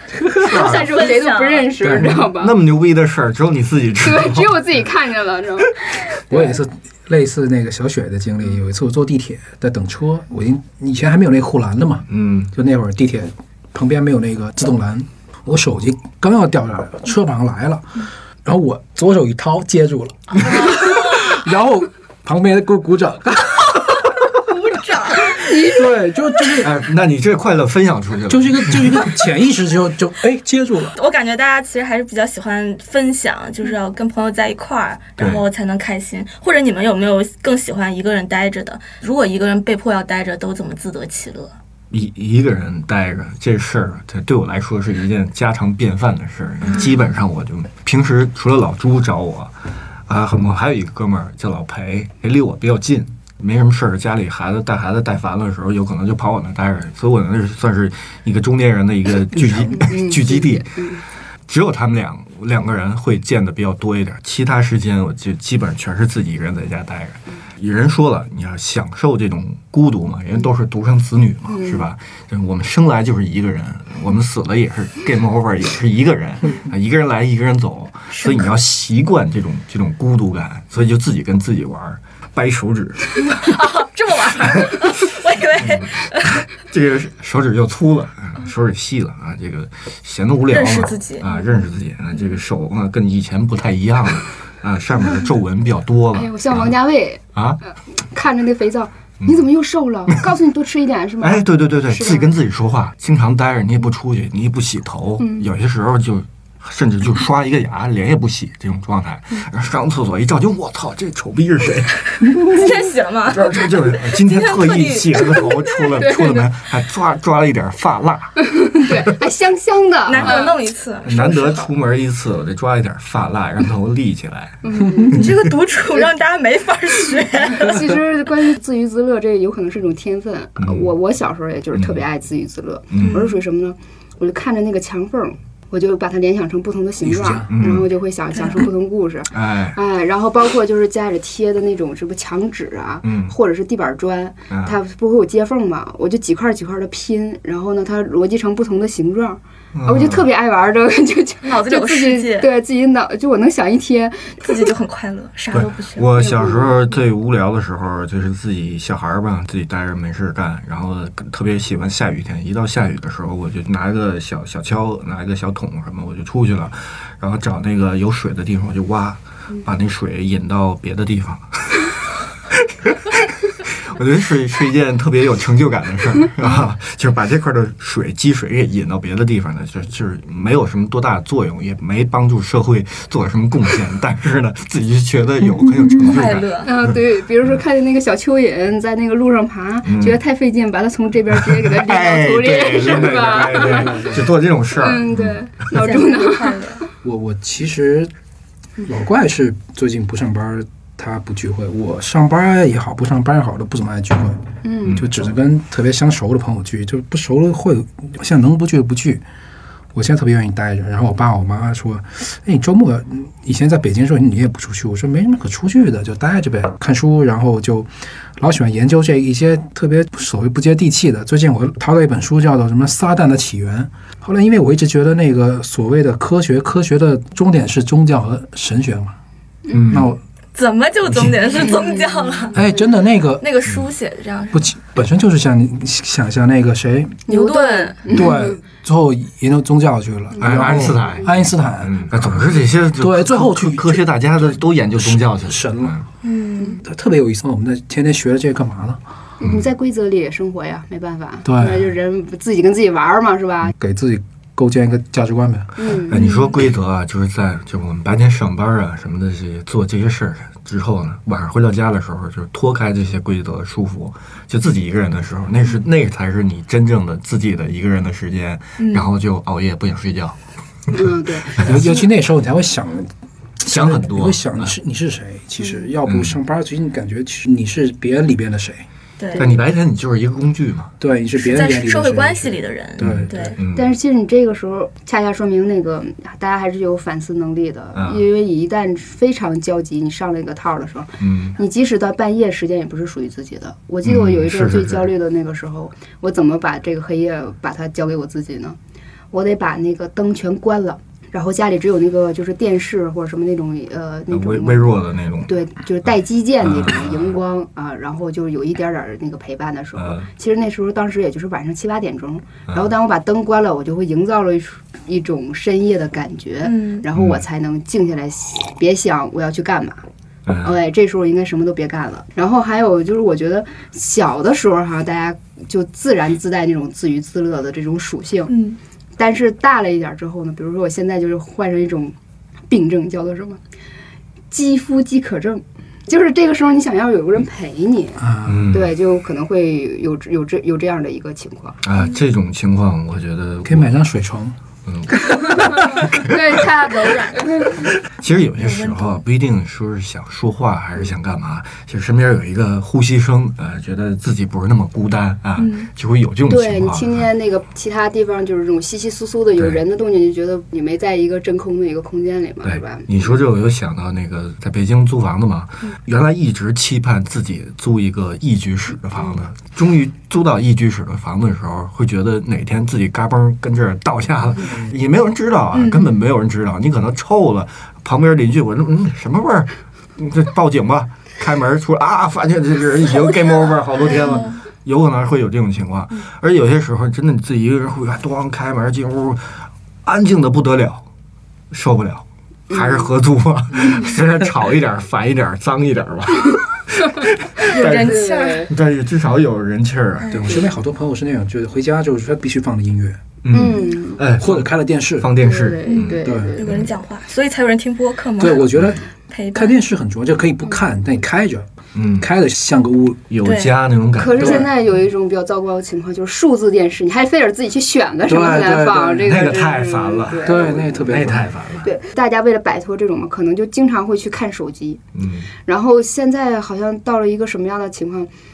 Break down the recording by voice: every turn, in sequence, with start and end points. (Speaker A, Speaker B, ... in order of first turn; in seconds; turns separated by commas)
Speaker A: 0.2-2.5, Speaker B: 0.4-0.9, Speaker C: 0.5-1.7, Speaker D: 1.8-2.1, Speaker B: 1.9-4.6, Speaker A: 4.0-6.5, Speaker D: 6.3-24.3, Speaker B: 12.1-12.5, Speaker C: 20.5-21.2, Speaker C: 24.4-25.7, Speaker D: 25.2-26.8, Speaker A: 25.4-25.8, Speaker B: 26.6-28.8, Speaker D: 28.3-30.9, Speaker C: 30.9-41.5, Speaker B: 41.9-49.5, Speaker C: 46.6-47.0, Speaker B: 50.1-60.9, Speaker D: 59.3-59.7, Speaker A: 59.7-61.0, Speaker B: 61.5-83.5, Speaker A: 71.5-71.8, Speaker C: 78.1-78.5, Speaker C: 83.3-86.4, Speaker B: 84.4-84.8, Speaker B: 85.6-96.7, Speaker C: 90.5-91.5, Speaker A: 96.1-97.2, Speaker B: 97.3-97.6, Speaker A: 98.0-102.3, Speaker B: 101.2-112.6, Speaker A: 105.2-105.5, Speaker C: 112.2-116.0, Speaker B: 113.3-118.9, Speaker A: 116.0-116.4, Speaker A: 118.4-120.5, Speaker C: 120.1-121.7, Speaker B: 121.0-124.6, Speaker A: 124.6-125.2, Speaker C: 125.1-127.9, Speaker A: 127.5-154.7, Speaker B: 130.6-130.9, Speaker B: 131.7-132.0, Speaker B: 132.9-133.2, Speaker C: 133.0-133.3, Speaker D: 137.0-137.5, Speaker B: 137.5-137.9, Speaker B: 139.3-139.8, Speaker B: 143.0-143.3, Speaker B: 144.5-144.8, Speaker B: 149.7-150.2, Speaker C: 151.4-152.5, Speaker C: 154.4-156.1, Speaker B: 155.5-171.9, Speaker A: 156.1-156.8, Speaker B: 172.5-186.9, Speaker C: 186.0-186.7, Speaker A: 186.6-194.1, Speaker B: 189.8-190.2, Speaker B: 191.5-195.4, Speaker D: 192.8-194.3, Speaker A: 194.8-196.6, Speaker C: 195.7-196.8, Speaker D: 197.0-198.1, Speaker D: 198.8-209.2, Speaker A: 204.6-205.0, Speaker D: 209.9-229.2, Speaker A: 229.7-230.1, Speaker B: 229.7-230.1, Speaker D: 229.9-230.2, Speaker C: 230.5-232.6, Speaker B: 231.1-231.3, Speaker A: 231.6-232.4, Speaker D: 232.5-233.4, Speaker C: 233.4-234.6, Speaker D: 234.5-237.2, Speaker A: 237.3-238.6, Speaker C: 237.3-238.2, Speaker D: 238.1-246.0, Speaker A: 240.3-241.2, Speaker B: 240.4-246.0, Speaker C: 246.2-246.8, Speaker D: 246.8-249.0, Speaker A: 249.4-253.7, Speaker D: 251.4-251.9, Speaker D: 253.7-255.8, Speaker A: 255.8-256.2, Speaker B: 256.1-270.4, Speaker C: 256.1-256.6, Speaker C: 268.8-269.1, Speaker A: 270.9-271.9, Speaker D: 271.6-278.9, Speaker B: 273.6-274.7, Speaker B: 276.1-276.4, Speaker C: 279.2-279.5, Speaker B: 279.4-280.9, Speaker D: 281.0-283.3, Speaker C: 281.4-283.6, Speaker B: 283.0-283.9, Speaker A: 283.7-298.8, Speaker B: 287.9-288.2, Speaker B: 291.2-291.6, Speaker B: 294.0-295.1, Speaker A: 299.3-320.0, Speaker B: 304.3-305.6, Speaker B: 306.6-307.3, Speaker B: 309.9-310.3, Speaker C: 316.6-317.0, Speaker B: 317.1-317.4, Speaker B: 320.4-320.7, Speaker A: 320.6-328.5, Speaker C: 328.5-328.8, Speaker A: 329.2-332.1, Speaker A: 332.7-333.6, Speaker A: 334.5-341.8, Speaker D: 338.2-338.7, Speaker B: 338.4-338.9, Speaker B: 341.8-343.9, Speaker D: 343.6-344.5, Speaker B: 344.9-346.6, Speaker A: 345.5-347.9, Speaker C: 346.7-347.4, Speaker B: 348.1-357.3, Speaker C: 348.6-349.2, Speaker C: 355.6-355.9, Speaker A: 356.5-363.4, Speaker B: 362.6-391.0, Speaker C: 375.7-376.1, Speaker C: 384.0-384.6, Speaker B: 391.7-400.6, Speaker A: 392.7-393.1, Speaker C: 397.6-398.7, Speaker A: 397.7-398.7, Speaker C: 400.2-400.6, Speaker D: 400.3-403.2, Speaker B: 403.4-406.9, Speaker A: 403.5-404.2, Speaker D: 404.4-405.3, Speaker A: 405.4-406.7, Speaker C: 405.9-409.8, Speaker D: 406.2-406.5, Speaker D: 408.4-409.0, Speaker D: 409.5-413.3, Speaker B: 411.9-412.3, Speaker B: 413.3-414.7, Speaker C: 413.4-413.7, Speaker A: 414.1-421.1, Speaker D: 414.4-414.6, Speaker D: 418.3-419.4, Speaker B: 419.2-421.9, Speaker D: 420.4-421.5, Speaker A: 421.8-425.0, Speaker B: 425.1-425.5, Speaker A: 425.6-428.3